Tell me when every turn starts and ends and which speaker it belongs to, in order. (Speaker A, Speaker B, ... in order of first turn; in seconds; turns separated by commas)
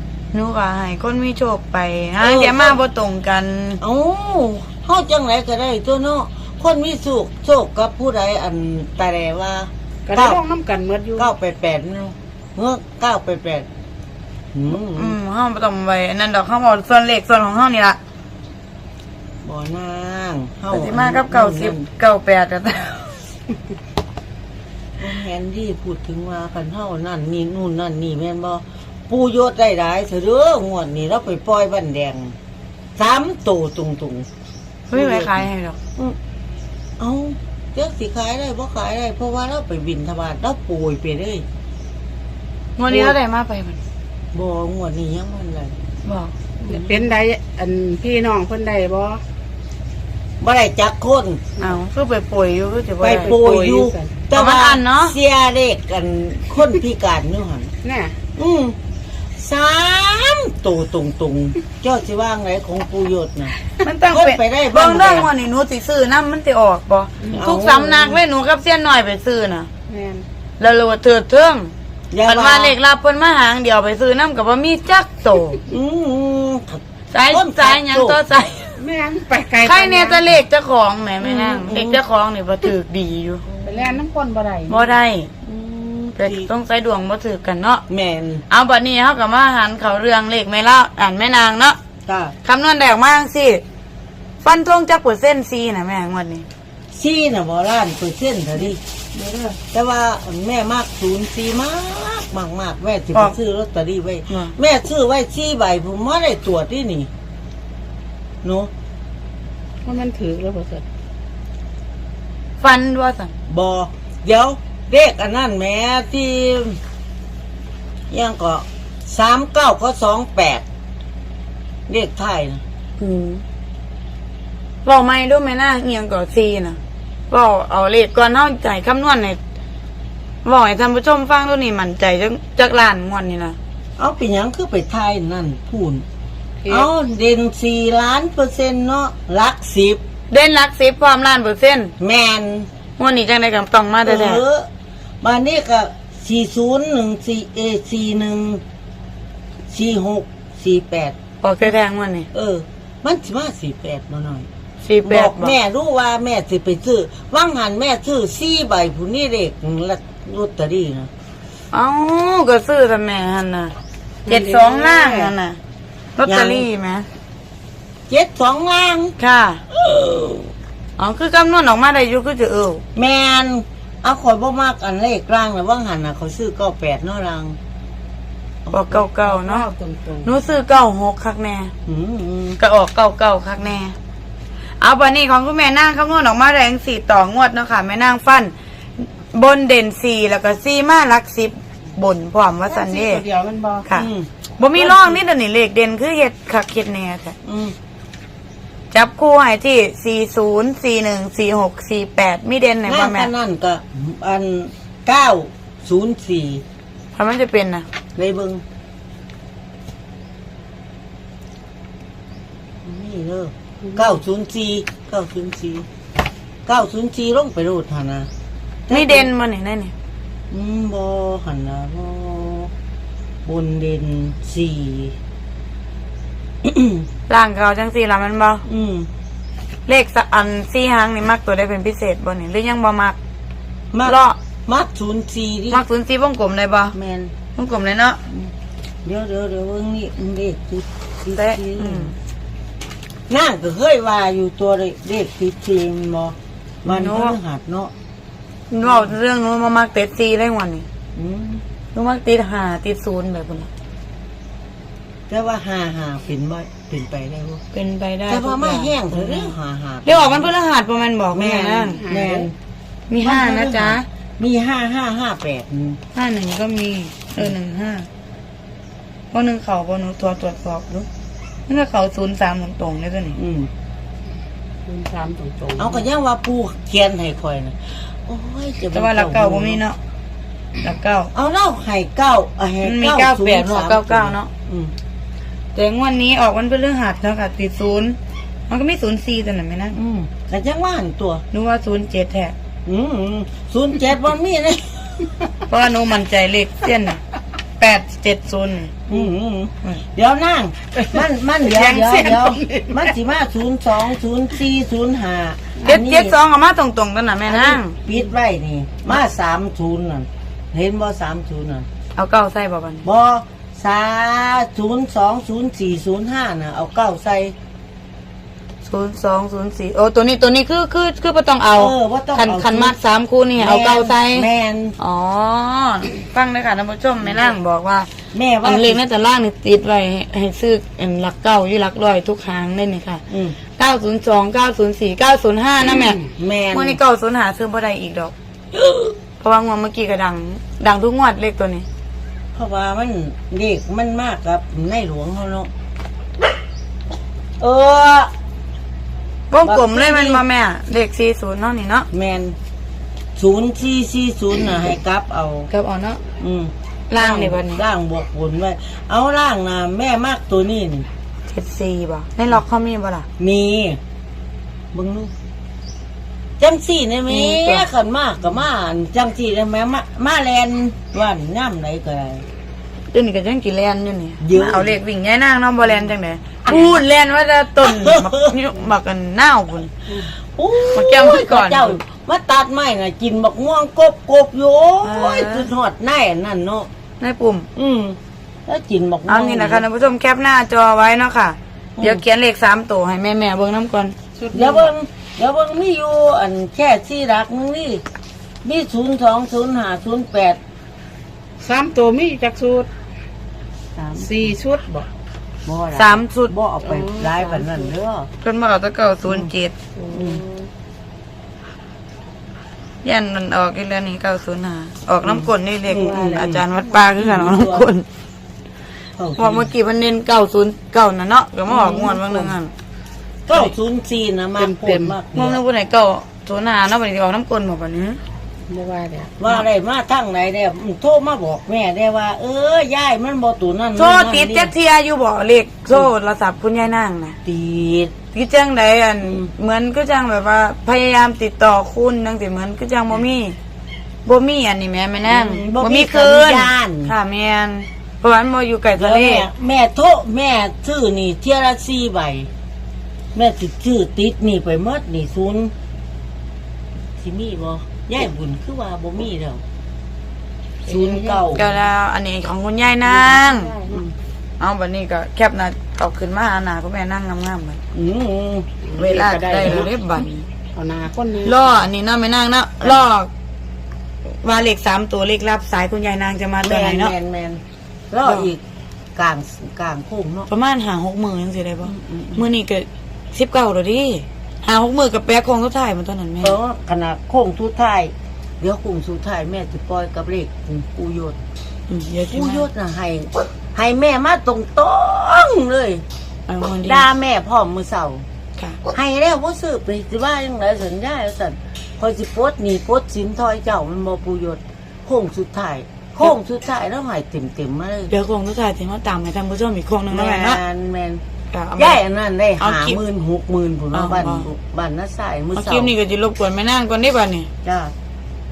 Speaker A: 0.3-3.8, Speaker B: 2.2-2.8, Speaker B: 3.8-10.4, Speaker C: 10.1-11.3, Speaker B: 11.2-13.7, Speaker B: 14.5-15.2, Speaker A: 14.8-18.0, Speaker B: 19.4-21.9, Speaker A: 20.7-23.2, Speaker B: 25.0-32.3, Speaker B: 33.0-34.3, Speaker A: 34.9-35.8, Speaker B: 34.9-36.2, Speaker B: 37.0-41.4, Speaker A: 42.8-43.8, Speaker B: 42.9-43.1, Speaker B: 44.3-45.8, Speaker A: 46.0-46.3, Speaker C: 46.6-49.2, Speaker B: 50.4-51.4, Speaker A: 51.6-53.4, Speaker B: 53.0-57.7, Speaker C: 53.2-54.2, Speaker A: 54.3-55.1, Speaker C: 57.8-58.2, Speaker B: 58.4-58.8, Speaker B: 59.4-63.5, Speaker A: 63.8-69.7, Speaker B: 64.1-65.3, Speaker B: 67.3-68.2, Speaker C: 69.9-70.2, Speaker A: 70.6-71.7, Speaker B: 72.1-72.8, Speaker A: 72.2-75.6, Speaker B: 75.7-78.2, Speaker A: 77.1-78.8, Speaker C: 78.8-80.4, Speaker A: 79.6-83.5, Speaker B: 81.2-82.0, Speaker B: 83.5-84.0, Speaker C: 83.6-85.0, Speaker A: 84.7-85.3, Speaker B: 85.4-86.5, Speaker A: 86.2-87.8, Speaker B: 87.9-88.4, Speaker A: 88.5-91.8, Speaker B: 92.1-92.3, Speaker A: 92.4-93.6, Speaker A: 94.4-96.5, Speaker B: 96.9-98.8, Speaker A: 99.1-99.6, Speaker B: 99.6-107.1, Speaker A: 104.3-104.5, Speaker B: 108.4-108.7, Speaker C: 109.8-110.8, Speaker A: 112.6-113.3, Speaker B: 113.5-116.8, Speaker B: 118.1-120.6, Speaker B: 121.9-122.6, Speaker A: 123.0-123.4, Speaker A: 124.8-126.8, Speaker A: 127.3-129.4, Speaker A: 130.4-133.6, Speaker B: 134.0-136.0, Speaker B: 136.7-140.0, Speaker A: 140.3-141.9, Speaker B: 142.0-142.7, Speaker A: 143.0-144.4, Speaker B: 144.0-144.7, Speaker B: 145.2-148.6, Speaker B: 149.7-151.7, Speaker A: 151.4-152.3, Speaker B: 152.3-154.5, Speaker A: 154.8-155.5, Speaker B: 155.0-161.1, Speaker A: 161.7-163.7, Speaker A: 164.2-165.6, Speaker B: 164.3-165.3, Speaker A: 166.2-167.1, Speaker B: 166.2-166.7, Speaker B: 168.1-169.1, Speaker A: 169.2-169.6, Speaker B: 169.7-170.5, Speaker A: 171.0-172.8, Speaker B: 172.9-177.6, Speaker B: 178.7-179.0, Speaker A: 178.7-179.7, Speaker C: 178.9-180.4, Speaker A: 180.2-181.7, Speaker B: 181.8-182.6, Speaker A: 182.6-183.9, Speaker A: 184.8-193.2, Speaker C: 192.7-194.0, Speaker A: 193.8-197.3, Speaker B: 193.9-195.1, Speaker B: 197.4-197.8, Speaker A: 198.9-203.3, Speaker B: 202.8-206.6, Speaker A: 207.1-207.9, Speaker B: 208.2-208.6, Speaker B: 212.8-215.9, Speaker C: 213.8-214.1, Speaker B: 216.7-218.3, Speaker B: 218.9-219.3, Speaker A: 218.9-219.9, Speaker B: 220.5-222.7, Speaker B: 223.4-225.1, Speaker B: 226.6-227.0, Speaker A: 227.3-228.6, Speaker B: 228.6-229.1, Speaker A: 229.9-233.2, Speaker B: 233.9-235.8, Speaker A: 234.0-234.4, Speaker A: 235.7-236.9, Speaker B: 236.9-237.3, Speaker A: 237.6-238.2, Speaker B: 238.3-238.5, Speaker B: 239.1-242.1, Speaker A: 241.3-242.2, Speaker B: 243.3-247.9, Speaker A: 246.8-247.4, Speaker A: 248.7-250.8, Speaker B: 248.8-249.1, Speaker B: 251.1-251.6, Speaker A: 251.9-253.7, Speaker B: 255.3-257.6, Speaker A: 257.7-262.1, Speaker B: 258.3-260.5, Speaker B: 261.3-262.6, Speaker C: 261.9-262.5, Speaker A: 263.1-264.1, Speaker B: 263.2-266.0, Speaker A: 266.1-268.1, Speaker A: 269.3-271.1, Speaker A: 271.7-273.4, Speaker B: 273.3-273.7, Speaker C: 274.9-276.1, Speaker B: 275.8-279.8, Speaker A: 278.9-280.0, Speaker A: 280.8-281.3, Speaker B: 281.3-284.9, Speaker A: 282.8-284.5, Speaker A: 285.7-288.2, Speaker A: 288.7-290.0, Speaker B: 289.9-291.4, Speaker A: 291.5-292.6, Speaker B: 292.8-295.5, Speaker A: 295.7-297.2, Speaker A: 297.8-299.0, Speaker B: 299.1-306.4, Speaker C: 301.9-303.0, Speaker A: 305.8-308.0, Speaker B: 307.5-311.9, Speaker A: 312.2-313.1, Speaker B: 313.0-317.6, Speaker A: 318.8-324.5, Speaker B: 321.7-322.9, Speaker B: 323.6-324.9, Speaker A: 325.0-328.1, Speaker B: 328.3-329.0, Speaker A: 328.6-338.3, Speaker B: 333.3-333.6, Speaker B: 336.2-337.0, Speaker B: 338.7-339.1, Speaker A: 339.4-341.9, Speaker B: 342.5-345.7, Speaker B: 347.6-348.3, Speaker A: 349.5-352.1, Speaker B: 349.6-350.4, Speaker B: 352.1-352.6, Speaker B: 353.4-355.7, Speaker A: 355.7-356.2, Speaker B: 356.4-361.1, Speaker A: 357.1-357.8, Speaker A: 361.5-363.3, Speaker B: 363.4-364.0, Speaker B: 364.9-365.3, Speaker B: 366.6-372.4, Speaker A: 367.3-367.9, Speaker A: 373.1-379.9, Speaker B: 374.4-374.9, Speaker B: 376.7-377.0, Speaker B: 377.8-378.6, Speaker B: 380.4-386.9, Speaker A: 380.9-382.0, Speaker A: 385.0-385.7, Speaker A: 387.2-387.7, Speaker B: 387.8-389.8, Speaker A: 389.3-394.2, Speaker B: 392.0-392.2, Speaker C: 394.4-394.9, Speaker B: 394.5-398.0, Speaker B: 398.6-400.6, Speaker C: 401.6-402.9, Speaker B: 403.9-404.5, Speaker C: 404.1-405.1, Speaker B: 405.7-408.3, Speaker A: 405.9-407.9, Speaker A: 408.4-409.9, Speaker B: 410.1-410.4, Speaker A: 413.0-418.1, Speaker B: 415.2-416.6, Speaker B: 417.2-417.9, Speaker B: 419.2-419.7, Speaker A: 419.4-422.7, Speaker B: 421.7-422.6, Speaker B: 423.5-425.6, Speaker C: 424.6-425.2, Speaker A: 425.3-428.2, Speaker C: 428.7-429.3, Speaker B: 429.4-434.7, Speaker A: 433.9-437.4, Speaker B: 437.4-438.1, Speaker A: 438.3-443.6, Speaker B: 439.2-439.5, Speaker A: 444.2-449.5, Speaker B: 445.3-447.1, Speaker B: 448.9-452.5, Speaker B: 453.3-455.7, Speaker B: 457.2-459.6, Speaker B: 460.9-461.8, Speaker C: 460.9-461.4, Speaker A: 461.5-463.8, Speaker C: 463.0-464.0, Speaker B: 463.9-464.1, Speaker A: 464.6-467.8, Speaker B: 467.9-468.8, Speaker C: 468.8-469.9, Speaker A: 469.0-470.4, Speaker B: 469.6-469.9, Speaker C: 470.7-471.8, Speaker A: 471.4-473.3, Speaker A: 474.2-477.1, Speaker B: 476.6-478.6, Speaker A: 478.2-478.5, Speaker B: 479.2-480.5, Speaker A: 480.5-486.6, Speaker B: 481.8-482.4, Speaker B: 486.4-491.4, Speaker A: 491.9-492.7, Speaker B: 492.3-496.0, Speaker A: 496.5-497.1, Speaker B: 496.8-498.2, Speaker B: 498.9-508.1, Speaker A: 508.1-510.6, Speaker B: 510.1-511.2, Speaker A: 511.5-512.0, Speaker B: 511.8-515.9, Speaker A: 512.6-513.0, Speaker A: 513.9-514.5, Speaker A: 515.5-517.5, Speaker B: 517.6-517.9